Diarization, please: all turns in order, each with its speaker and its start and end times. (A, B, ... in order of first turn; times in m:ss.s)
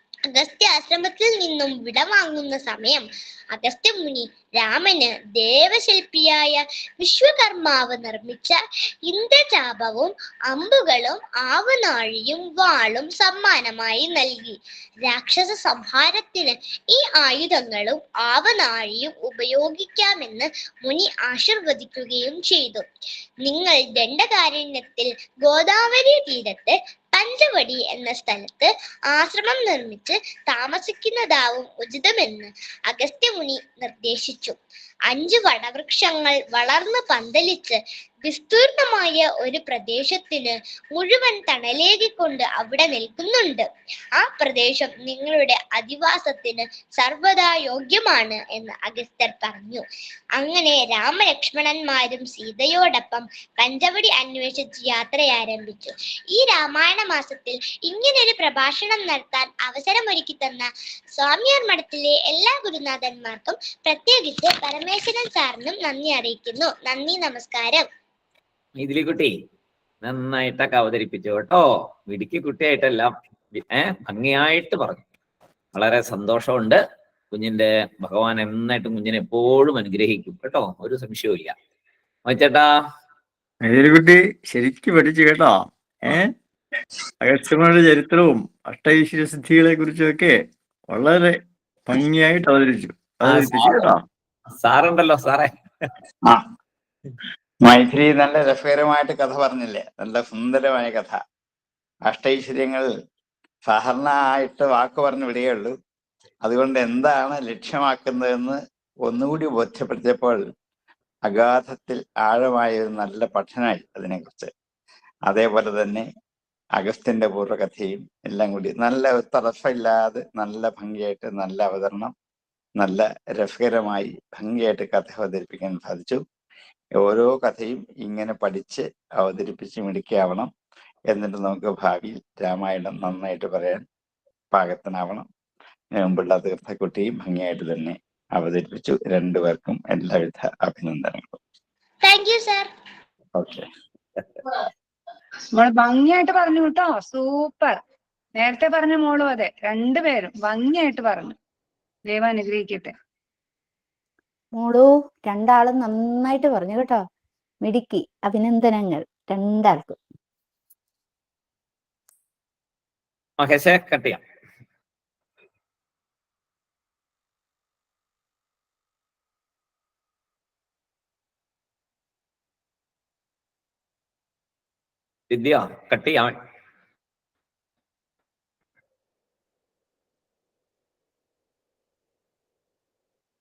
0:00.3-0:08.6 A
0:09.1-0:22.8 A
0:23.4-0:34.6 A
0:35.1-0:43.7 A
0:44.2-0:49.8 A
0:50.4-1:00.7 A
1:01.2-1:07.9 A
1:08.8-1:09.3 B
1:10.0-1:15.0 B
1:15.7-1:16.8 B
1:17.3-1:21.5 B
1:22.2-1:22.7 B
1:23.6-1:26.3 C
1:27.2-1:30.4 C
1:30.9-1:31.4 C
1:31.9-1:34.0 C
1:33.2-1:33.9 B
1:34.6-1:35.5 B
1:37.6-1:41.2 D
1:42.1-1:42.9 D
1:43.6-1:45.7 D
1:46.4-1:50.4 D
1:51.3-1:54.5 D
1:55.3-1:56.1 D
1:56.8-2:02.1 D
2:02.8-2:06.2 D
2:07.0-2:10.5 D
2:11.1-2:13.8 D
2:14.5-2:15.2 D
2:16.0-2:21.4 D
2:22.0-2:22.7 A
2:23.4-2:23.6 D
2:25.5-2:27.8 E
2:28.4-2:31.3 E
2:32.1-2:32.9 E
2:34.6-2:37.0 F
2:37.6-2:40.0 F
2:43.4-2:44.2 B
2:55.3-2:56.4 B